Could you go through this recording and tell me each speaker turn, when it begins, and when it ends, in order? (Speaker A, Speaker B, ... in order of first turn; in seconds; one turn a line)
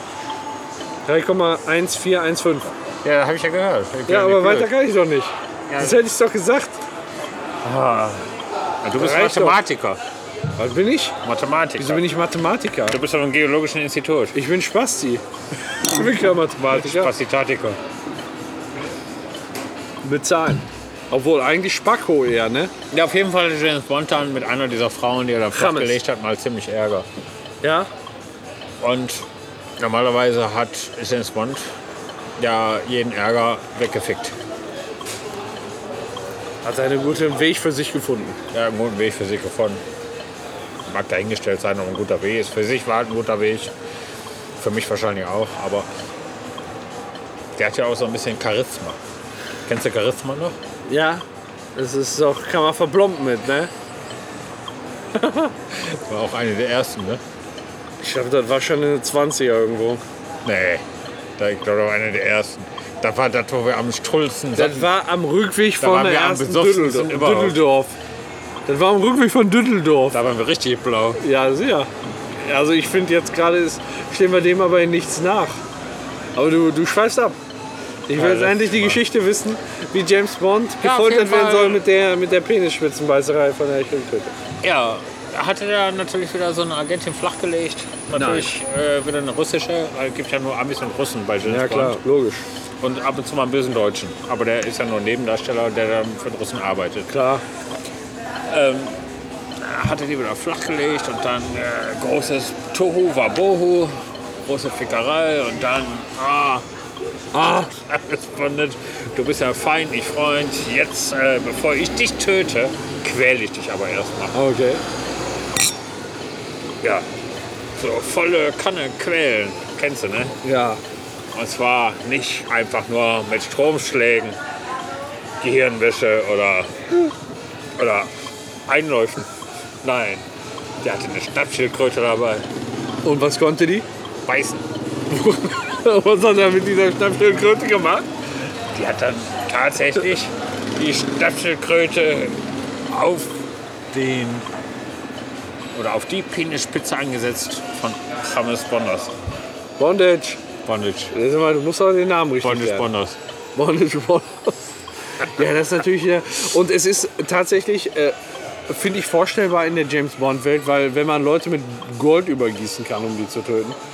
Speaker A: 1.1-2.7
Speaker B: 3.0-4.7
Speaker A: 4.1-6.8
Speaker B: 5.7-6.0
Speaker B: 7.6-8.3
Speaker B: 8.8-10.0
Speaker A: 9.0-9.6
Speaker A: 10.6-11.1
Speaker B: 11.2-12.0
Speaker A: 11.8-13.0
Speaker B: 12.9-14.3
Speaker A: 14.3-15.2
Speaker A: 15.8-17.1
Speaker B: 16.7-17.8
Speaker A: 20.0-22.7
Speaker B: 22.9-27.1
Speaker A: 25.5-26.0
Speaker A: 27.6-27.9
Speaker B: 28.8-29.2
Speaker B: 29.8-31.6
Speaker B: 32.4-34.4
Speaker A: 36.6-38.4
Speaker B: 38.5-39.8
Speaker B: 40.9-43.7
Speaker B: 44.6-45.9
Speaker B: 47.5-49.0
Speaker B: 49.6-50.6
Speaker A: 50.9-51.2
Speaker A: 51.7-53.7
Speaker A: 55.2-55.5
Speaker B: 55.7-57.2
Speaker A: 58.0-60.0
Speaker B: 60.4-60.8
Speaker B: 61.4-64.9
Speaker A: 64.5-67.9
Speaker B: 65.8-67.6
Speaker A: 68.7-70.2
Speaker B: 70.1-71.2
Speaker A: 71.2-75.6
Speaker A: 76.3-77.4
Speaker A: 78.1-84.3
Speaker B: 78.1-79.0
Speaker B: 80.8-81.8
Speaker B: 84.6-92.0
Speaker A: 88.1-88.5
Speaker A: 91.4-92.4
Speaker B: 92.8-97.1
Speaker A: 97.1-97.4
Speaker B: 98.5-99.0
Speaker B: 99.6-106.6
Speaker A: 107.3-107.7
Speaker B: 107.6-114.3
Speaker A: 114.3-114.8
Speaker B: 117.8-120.3
Speaker A: 120.4-120.8
Speaker B: 121.3-124.4
Speaker B: 125.4-126.7
Speaker B: 127.8-128.1
Speaker B: 128.7-129.2
Speaker B: 129.8-130.2
Speaker B: 130.8-132.4
Speaker A: 133.0-133.8
Speaker B: 134.2-134.6
Speaker A: 135.1-138.1
Speaker B: 138.7-143.4
Speaker B: 143.9-144.4
Speaker B: 145.7-149.1
Speaker A: 149.8-150.4
Speaker B: 150.6-151.1
Speaker A: 151.1-152.9
Speaker B: 152.4-153.2
Speaker A: 153.6-154.6
Speaker A: 155.2-158.1
Speaker A: 158.7-163.8